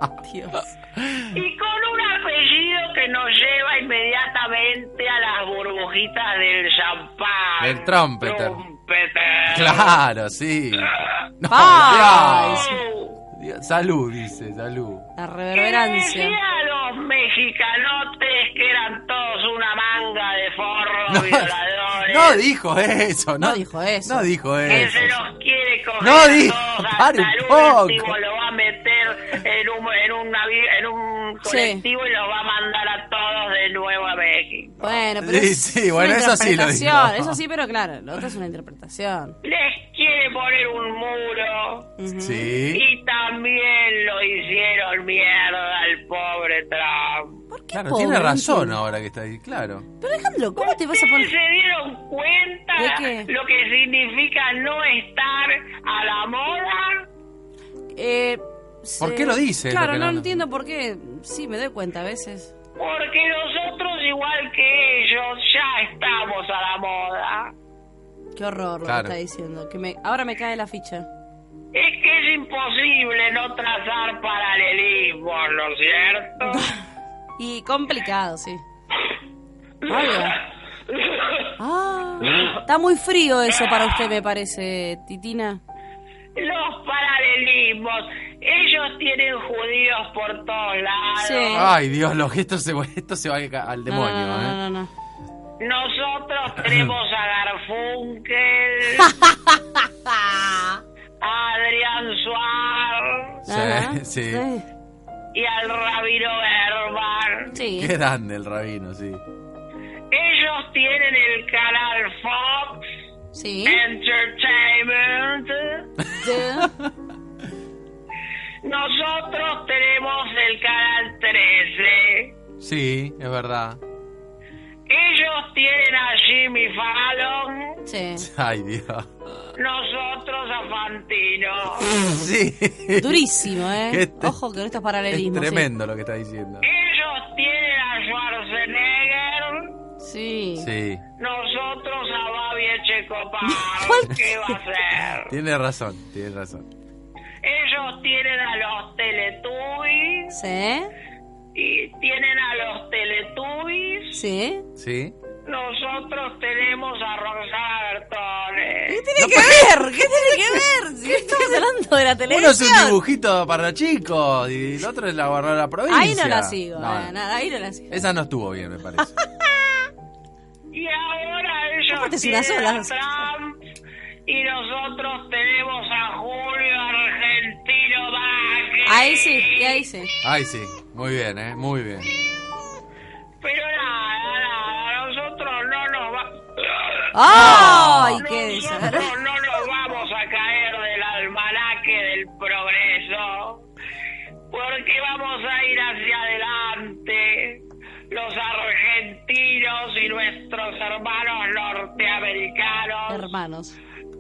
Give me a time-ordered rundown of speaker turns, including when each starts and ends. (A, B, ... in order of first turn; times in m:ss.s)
0:00.2-0:00.7 A
0:01.0-0:01.3 B
0:01.3-0:10.0 C
0:07.6-0:08.6 B
0:09.5-0:12.7 B
0:10.9-0:11.1 C
0:11.5-0:12.8 A
0:11.8-0:13.2 C
0:13.3-0:15.1 B
0:15.2-0:16.4 A
0:15.5-0:22.4 C
0:21.1-0:21.5 B
0:22.0-0:25.2 B
0:23.4-0:25.1 A
0:24.7-0:34.9 C
0:26.0-0:28.1 B
0:31.4-0:31.8 A
0:34.8-0:39.4 A
0:35.2-0:37.4 B
0:39.4-0:41.9 C
0:42.0-0:42.5 A
0:42.1-0:42.8 B
0:42.7-0:47.4 C
0:47.5-0:48.8 A
0:47.7-0:49.9 B
0:50.0-0:51.3 A
0:50.6-0:57.0 C
0:52.8-0:53.3 A
0:57.9-1:02.5 A
0:59.0-1:00.4 B
1:02.8-1:07.5 C
1:08.4-1:11.1 A
1:08.8-1:09.2 B
1:11.7-1:16.7 C
1:16.4-1:16.8 A
1:17.4-1:18.6 A
1:19.8-1:20.4 C
1:19.9-1:20.4 A
1:20.9-1:21.5 C
1:21.6-1:25.6 A
1:26.4-1:31.7 C
1:31.2-1:31.7 A
1:31.5-1:34.6 B
1:33.9-1:34.9 A
1:35.6-1:39.1 C
1:36.6-1:36.9 B
1:39.0-1:39.3 A
1:41.2-1:43.4 C
1:43.4-1:44.4 B
1:43.5-1:44.6 A
1:45.3-1:47.5 C
1:47.5-1:47.9 A
1:47.7-1:49.2 B
1:50.1-1:52.9 C
1:53.3-1:53.8 A
1:53.6-1:55.9 C
1:56.0-1:56.9 B
1:56.1-1:56.7 A
1:58.6-2:02.3 C
2:02.6-2:03.8 B
2:04.9-2:07.8 C
2:07.8-2:08.3 A
2:08.2-2:09.4 B
2:09.6-2:11.9 C
2:11.9-2:14.3 B
2:13.0-2:15.7 A
2:15.1-2:16.6 B
2:16.6-2:19.7 C
2:20.0-2:20.7 A
2:20.6-2:21.0 B
2:21.2-2:25.3 C
2:23.4-2:24.6 A
2:25.3-2:26.7 B
2:27.4-2:30.3 C
2:30.3-2:30.9 A
2:31.5-2:34.2 C
2:34.1-2:34.6 A
2:34.8-2:35.1 B
2:35.4-2:39.0 C
2:38.9-2:43.0 A
2:39.2-2:40.6 B
2:42.3-2:47.1 B
2:45.9-2:48.0 A
2:47.9-2:49.1 B
2:50.7-2:53.6 C
2:51.9-2:53.2 A
2:54.2-2:59.8 C
2:58.8-3:00.1 A
3:00.2-3:02.1 B
3:03.4-3:13.6 C
3:07.1-3:09.1 A
3:07.3-3:08.2 B
3:14.5-3:23.3 C
3:23.1-3:23.8 A